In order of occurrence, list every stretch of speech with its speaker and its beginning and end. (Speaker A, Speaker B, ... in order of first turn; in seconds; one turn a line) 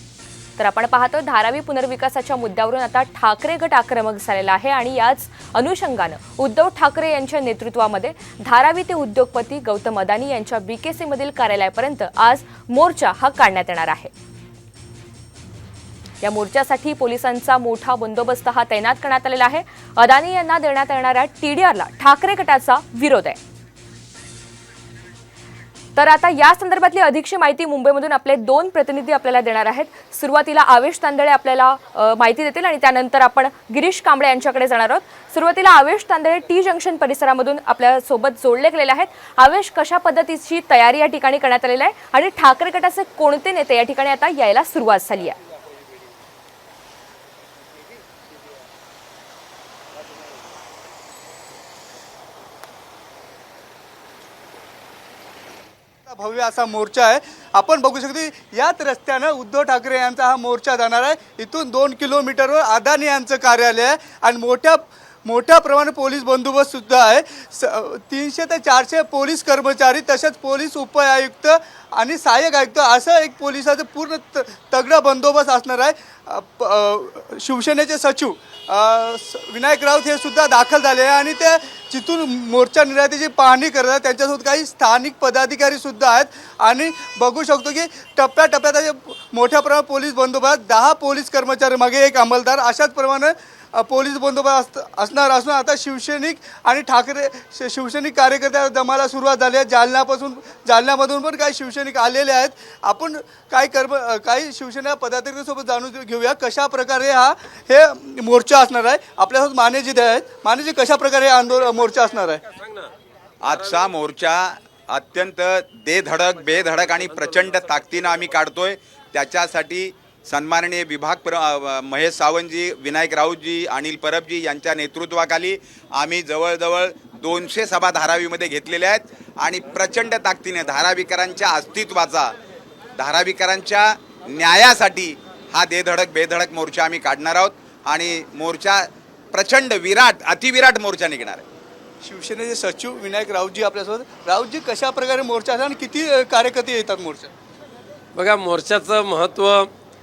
Speaker A: 0.6-14.1
Speaker A: 16.2-23.4
Speaker A: 26.0-45.4
Speaker B: 56.1-112.4
Speaker C: 112.5-112.9
Speaker D: 113.4-132.3
Speaker C: 113.5-113.9
Speaker C: 116.3-118.2
Speaker D: 133.0-141.4
Speaker B: 142.0-147.3
Speaker C: 148.2-149.7